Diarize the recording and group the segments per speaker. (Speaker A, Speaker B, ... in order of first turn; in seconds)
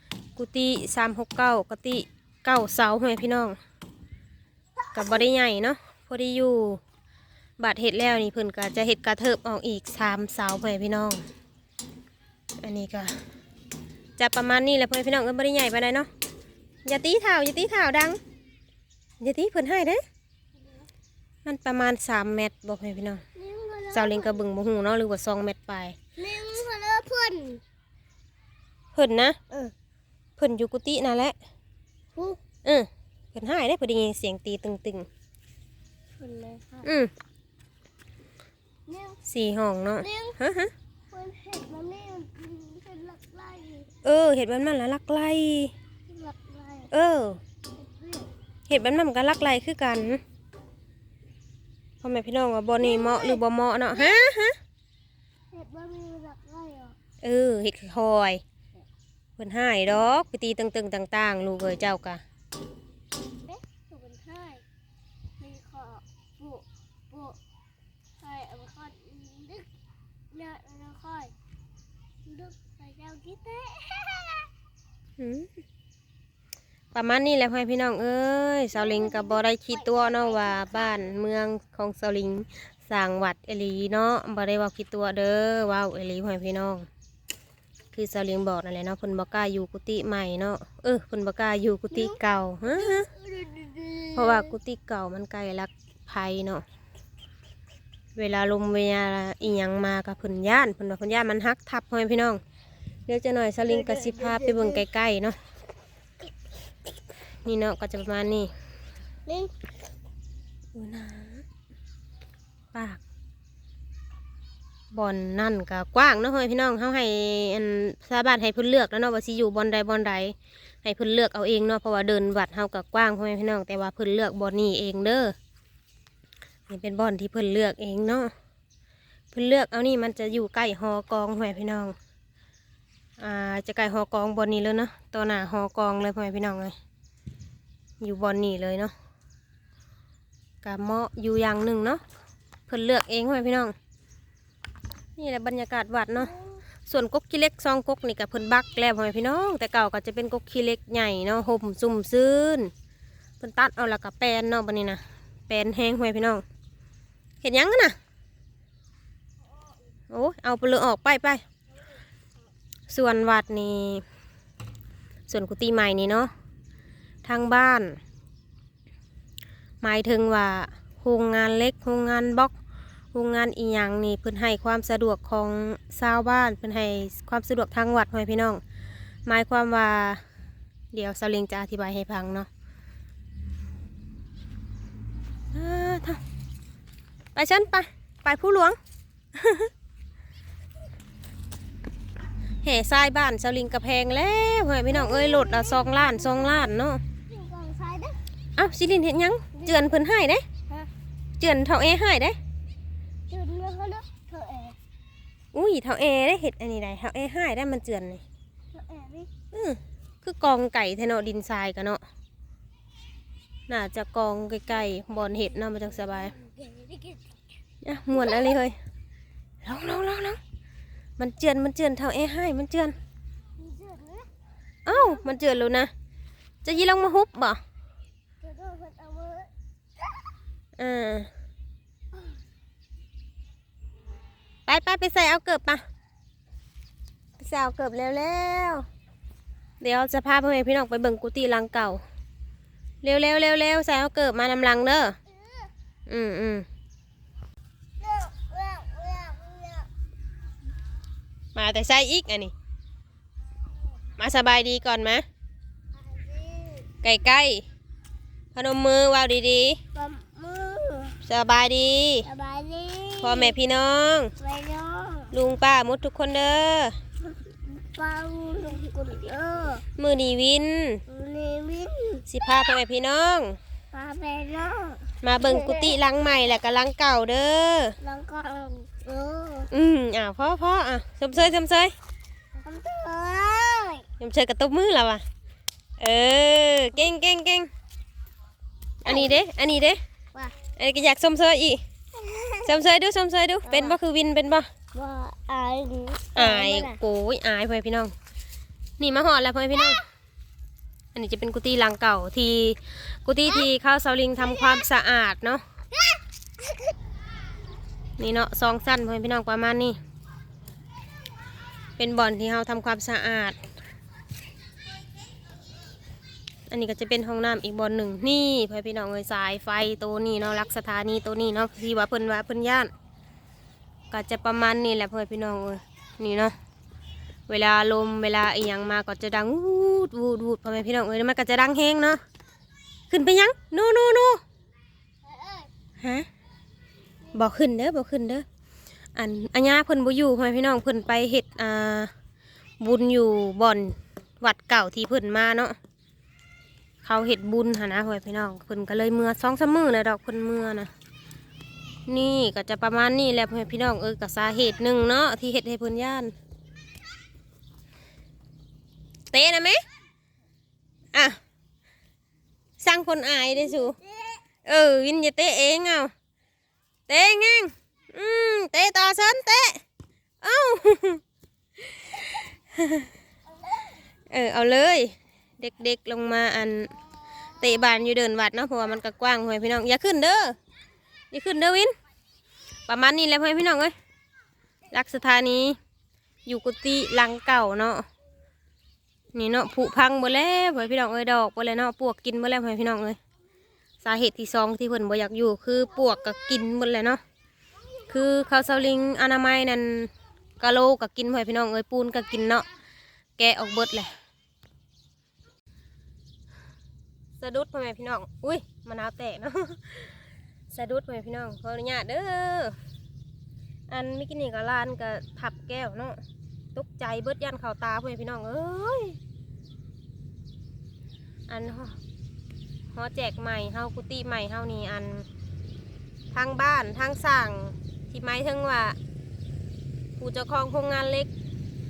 Speaker A: 0.4-3.6, 4.9-6.8, 7.6-11.2, 12.6-13.2, 14.2-16.1, 16.8-18.2, 19.2-20.0, 21.4-23.2, 23.9-26.0, 28.9-29.4, 30.4-31.3, 32.6-35.1, 36.8-37.1, 39.2-40.7, 44.0-45.7, 46.9-47.4, 48.7-50.2, 52.0-54.5, 57.2-58.4, 59.4-62.2, 75.2-75.5, 76.9-86.9, 87.9-93.1, 94.2-96.6, 98.2-102.4, 103.1-105.3, 107.5-108.5, 110.7-111.4, 112.7-113.0, 114.9-125.3, 126.7-128.3, 129.3-131.9, 133.2-136.7, 138.0-138.9, 140.6-142.0, 142.7-143.7, 145.2-146.3, 146.8-152.7, 153.4-156.4, 157.4-158.0, 160.1-161.4, 162.9-164.0, 165.3-166.3, 167.2-168.0, 169.8-172.5, 173.1-178.6, 179.3-180.2, 180.9-182.5, 185.5-186.2, 187.3-188.8, 189.3-189.7, 192.6-197.0, 198.6-200.4, 201.4-202.4, 205.5-208.2, 209.5-212.0, 213.7-216.3, 217.8-218.8, 219.6-220.4, 221.2-223.0, 224.8-225.9, 226.6-227.6, 230.8-231.3, 234.7-235.8, 237.4-238.8, 239.8-242.0, 243.0-245.2, 246.1-246.7, 251.5-252.5, 254.2-255.2, 257.0-257.6, 258.5-259.8, 261.2-262.3, 263.2-264.3, 265.3-267.0, 270.0-271.0, 272.3-273.6, 275.2-278.0, 279.7-281.9, 284.2-285.2, 286.0-287.7, 289.0-290.0, 290.8-291.8, 292.6-294.7, 296.4-298.1, 299.0-300.0, 301.1-305.6, 308.2-310.0, 312.0-313.6, 316.7-322.9, 324.1-326.5, 327.5-332.2, 333.1-334.4, 336.0-336.2, 337.3-338.4, 339.1-342.1, 342.8-345.8, 347.0-350.9, 352.1-356.3, 359.3-359.8, 362.8-364.0, 364.6-366.1, 367.1-369.8, 370.4-371.2, 371.8-373.1, 374.3-376.9, 377.5-380.6, 381.3-381.9, 382.9-383.9, 384.9-385.8, 386.5-388.1, 389.3-393.2, 394.0-397.2, 398.1-402.7, 403.4-404.1, 407.4-410.1, 410.7-412.8, 413.9-416.2, 416.8-419.2, 421.5-422.0, 422.9-425.2, 426.3-429.0, 430.2-431.3
Speaker B: 23.3-24.4, 26.2-27.6, 36.2-36.9, 38.9-39.2, 40.0-40.4, 41.1-43.9, 46.1-46.9, 47.8-48.3, 52.8-53.4, 55.5-57.0, 63.5-64.6, 65.4-67.4, 68.2-69.7, 70.3-71.3, 72.2-74.5, 78.7-81.0, 91.9-94.5, 103.9-104.7, 109.3-109.5, 194.9-196.7, 197.3-198.2, 203.3-204.8, 208.7-209.3, 216.3-217.2, 223.6-224.3, 224.9-225.2, 228.4-229.5, 245.4-245.7, 248.0-249.9, 256.0-256.9, 259.9-261.2, 262.2-263.5, 264.4-265.3, 267.5-269.8, 271.1-272.3, 273.9-275.9, 278.0-279.7, 282.6-284.0, 289.1-289.4, 292.2-292.7, 293.6-294.0, 294.9-297.0, 335.2-335.7